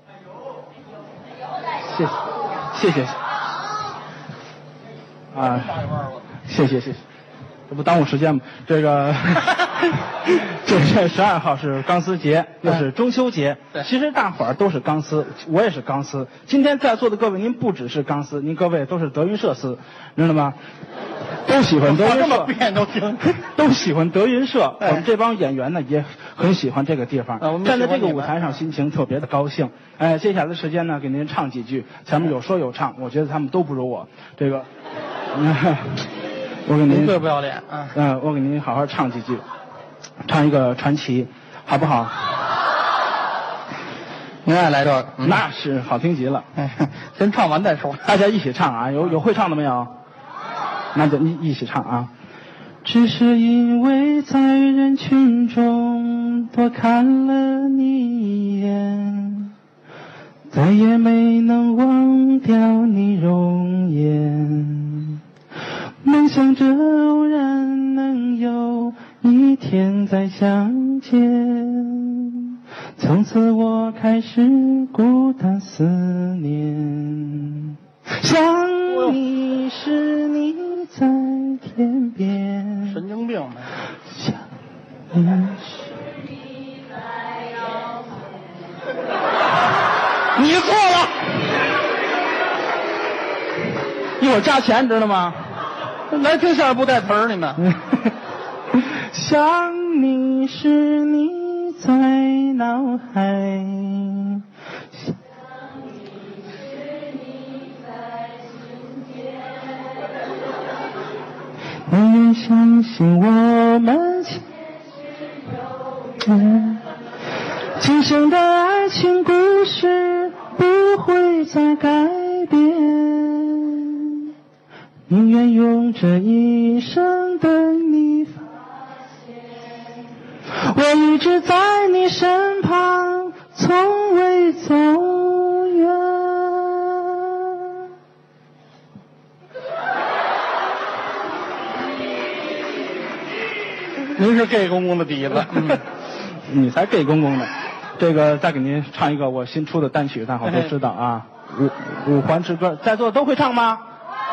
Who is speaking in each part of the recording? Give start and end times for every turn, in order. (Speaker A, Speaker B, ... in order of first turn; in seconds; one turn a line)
Speaker A: 1.9-2.2
Speaker A: 2.7-3.1
Speaker A: 5.3-7.0
Speaker A: 7.7-20.6
Speaker A: 21.4-22.5
Speaker B: 21.8-23.4
Speaker A: 23.4-34.7
Speaker B: 27.4-28.3
Speaker A: 35.3-36.1
Speaker A: 36.6-37.2
Speaker B: 36.9-37.9
Speaker A: 37.9-39.4
Speaker A: 40.2-42.1
Speaker B: 44.4-45.4
Speaker A: 45.2-46.5
Speaker B: 46.5-48.0
Speaker A: 48.0-49.9
Speaker A: 50.9-52.1
Speaker A: 52.8-59.5
Speaker A: 60.5-65.2
Speaker A: 66.0-83.0
Speaker B: 82.8-83.7
Speaker A: 84.1-84.4
Speaker A: 85.1-85.7
Speaker B: 90.3-91.2
Speaker A: 94.2-95.4
Speaker B: 96.1-97.7
Speaker A: 98.7-104.4
Speaker A: 111.9-114.5
Speaker A: 116.2-116.8
Speaker A: 117.8-124.3
Speaker A: 125.1-128.5
Speaker A: 130.5-137.9
Speaker B: 144.1-145.8
Speaker A: 146.5-153.8